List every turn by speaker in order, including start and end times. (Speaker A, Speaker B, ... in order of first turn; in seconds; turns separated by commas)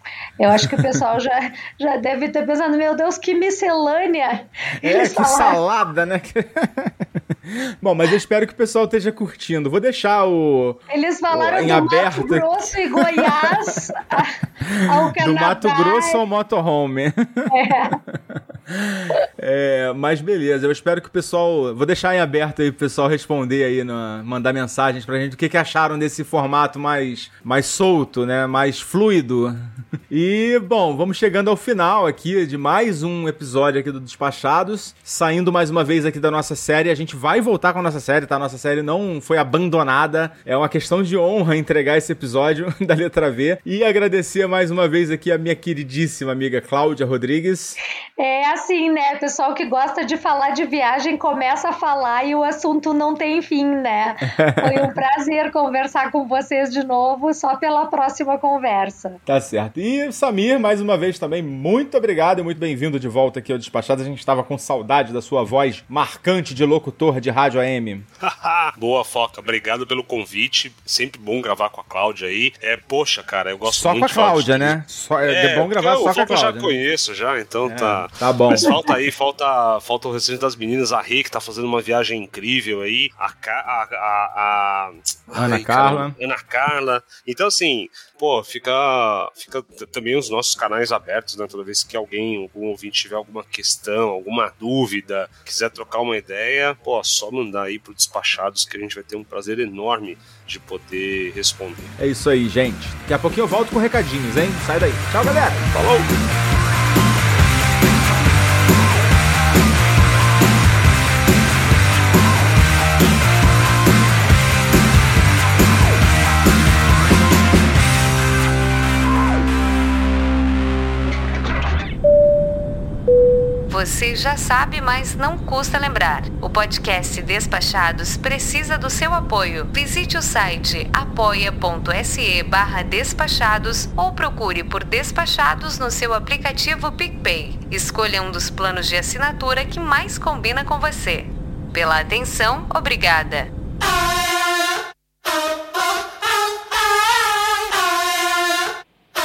Speaker A: 0.4-5.6, Speaker B: 0.5-1.0, Speaker B: 4.8-29.6, Speaker A: 10.9-16.2, Speaker A: 17.5-18.0, Speaker B: 30.1-47.8, Speaker A: 48.2-59.2, Speaker B: 54.2-54.9, Speaker B: 59.2-68.0, Speaker C: 68.2-102.0, Speaker B: 73.7-76.8, Speaker B: 77.6-78.8, Speaker B: 85.3-86.1, Speaker B: 102.0-105.7, Speaker C: 105.7-106.1, Speaker D: 123.7-143.5